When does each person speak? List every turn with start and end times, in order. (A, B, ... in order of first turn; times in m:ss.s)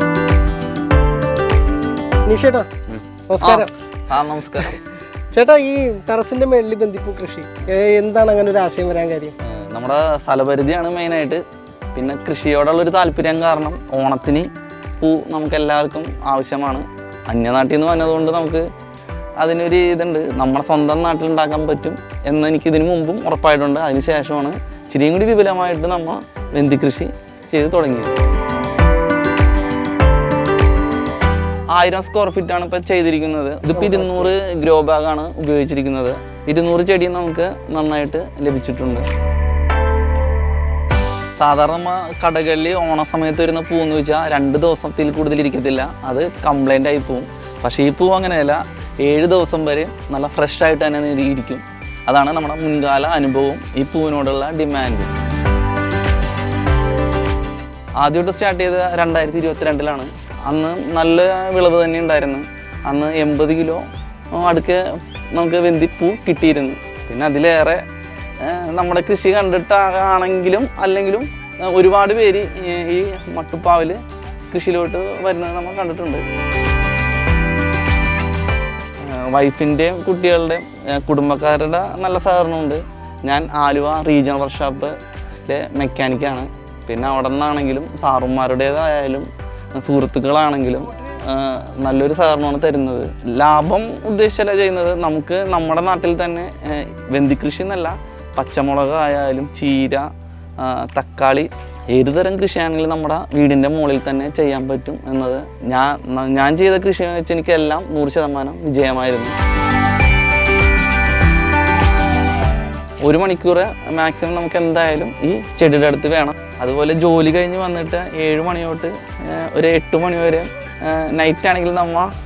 0:02.3-0:02.7 A
0:03.3-0:03.7 A
0:03.4-0:04.8 B
0:05.3-0:09.4 A
0:09.4-0:11.4 B
0:12.0-0:14.5 B
0:15.0-0:18.6 B
0:19.4-0:28.1 B
0:31.7-0:39.1 B
0:33.7-0:34.3 A
0:41.4-0:55.1 B
0:58.0-1:07.8 B
1:08.4-1:14.0 B
1:14.5-1:16.2 B
1:19.0-1:25.0 B
1:25.5-1:40.1 B
1:40.6-1:49.3 B
1:53.0-2:02.1 B